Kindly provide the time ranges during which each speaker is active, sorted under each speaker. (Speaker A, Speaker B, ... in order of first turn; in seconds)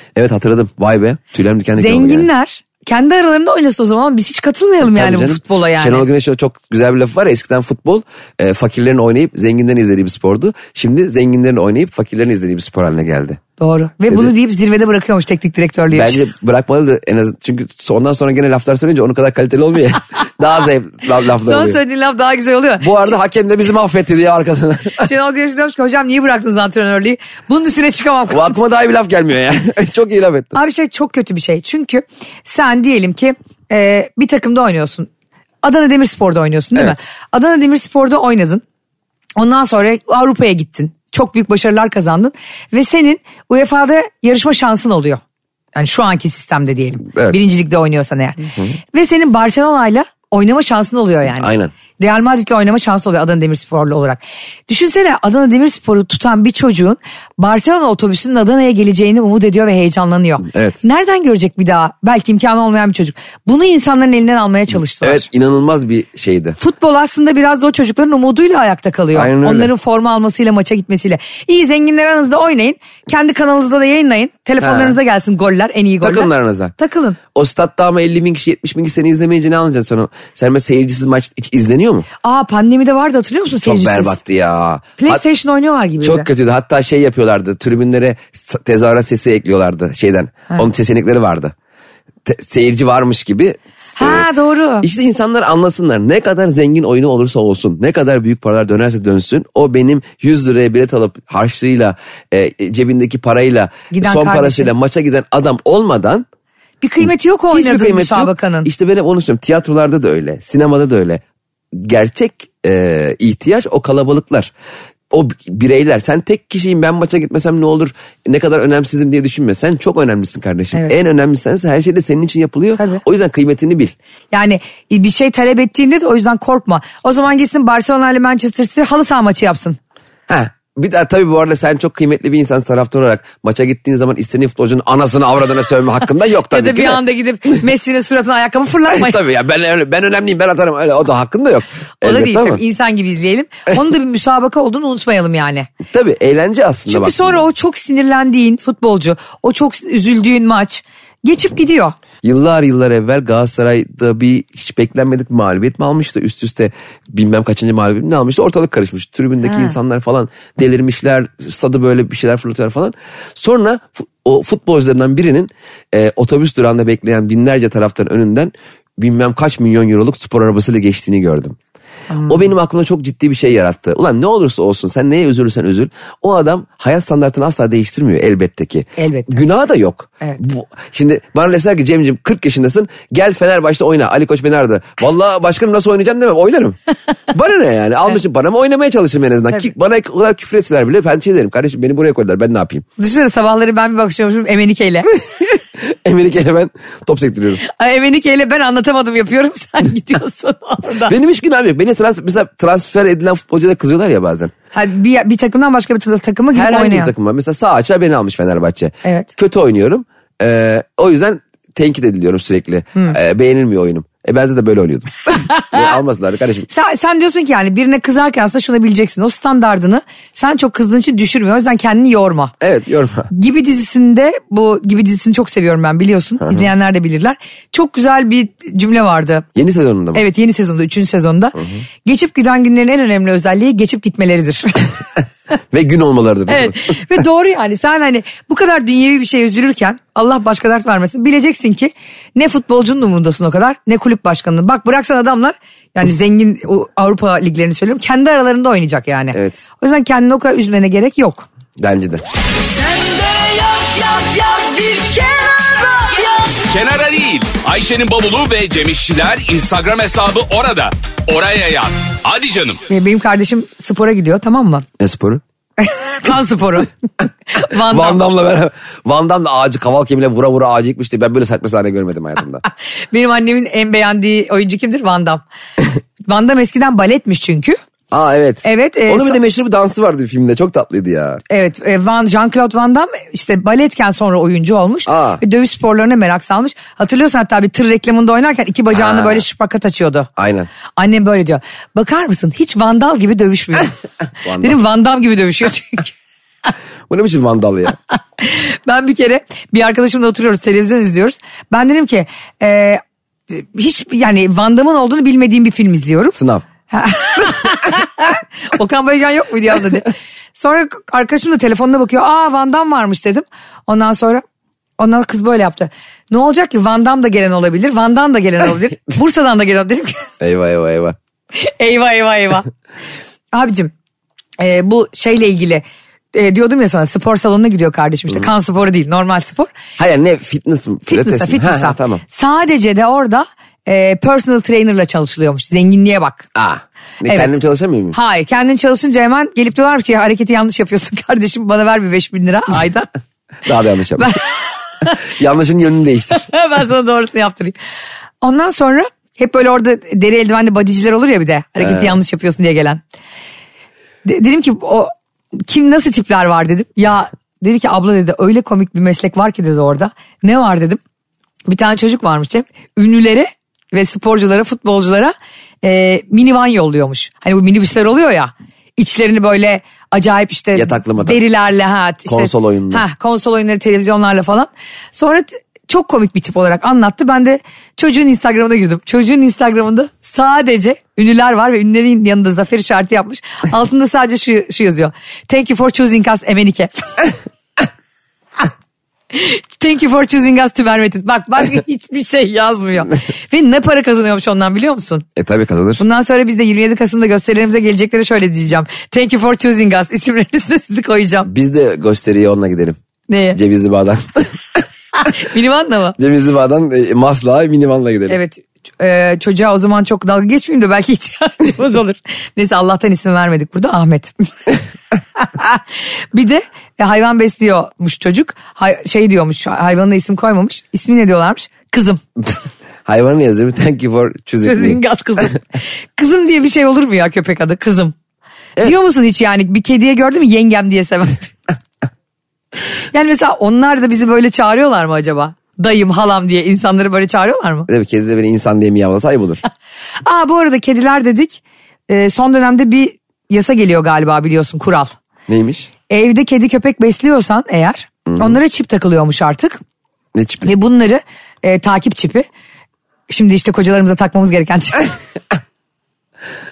Speaker A: 0.1-2.3, 4.8-13.4, 15.9-21.8, 22.8-25.1, 28.3-30.6, 36.8-37.0, 51.3-51.7, 60.5-60.8, 64.8-66.6, 69.1-69.7, 74.6-75.0, 76.0-76.7, 77.3-82.1, 83.6-85.2, 86.0-91.5, 92.2-94.3, 94.8-106.3, 107.5-111.2, 111.7-114.5, 115.1-123.9, 130.3-137.0, 138.9-142.6, 145.9-147.5, 152.2-171.6, 172.2-186.8, 187.3-192.8, 195.1-197.6, 201.1-204.5, 206.5-216.7, 222.6-223.3, 226.4-226.7, 229.6-230.2, 235.7-237.0, 249.3-249.7, 251.8-252.2, 265.0-265.4, 267.8-272.6, 278.1-281.4, 285.1-285.4, 288.9-289.4, 290.4-290.7, 294.4-294.8, 297.1-298.0, 306.3-306.6, 320.4-321.2, 330.0-332.2, 336.6-338.2, 343.6-344.4, 345.2-346.5, 351.8-352.2, 370.8-371.4, 372.3-373.0, 395.4-396.0, 401.5-403.0, 403.6-404.5, 406.2-408.4, 423.1-425.0, 437.9-439.6, 445.5-445.9, 448.3-448.6, 450.4-450.7
Speaker B: 1.8-6.1, 13.6-16.2, 21.4-23.2, 25.0-28.6, 30.6-35.1, 35.6-38.6, 39.4-45.2, 45.8-65.3, 66.6-77.2, 82.2-84.2, 85.0-86.3, 94.0-94.9, 103.9-104.7, 106.8-108.7, 122.8-123.0, 124.3-129.8, 136.5-139.2, 142.0-145.7, 146.9-152.0, 172.1-172.4, 179.0-179.3, 193.0-195.1, 197.6-201.2, 204.7-207.1, 209.0-209.3, 216.7-222.5, 223.3-229.5, 230.1-234.9, 236.5-251.5, 262.9-264.9, 265.8-266.9, 267.5-268.2, 273.1-275.4, 276.3-277.8, 278.6-279.4, 281.5-290.3, 291.0-293.9, 294.6-296.1, 298.4-306.4, 306.9-314.4, 315.0-320.3, 321.5-322.7, 323.5-323.9, 324.6-329.8, 331.1-336.5, 337.3-337.6, 338.1-343.1, 344.2-345.2, 346.3-347.8, 348.4-353.0, 354.2-361.0, 361.7-387.3, 389.3-395.2, 396.0-401.5, 403.3-403.6, 405.2-406.2, 408.3-414.3, 415.4-422.2, 424.6-428.2, 428.8-431.6, 433.1-437.9, 440.2-445.2, 446.1-449.8, 450.6-452.5, 453.3-455.1
Speaker C: 252.6-262.8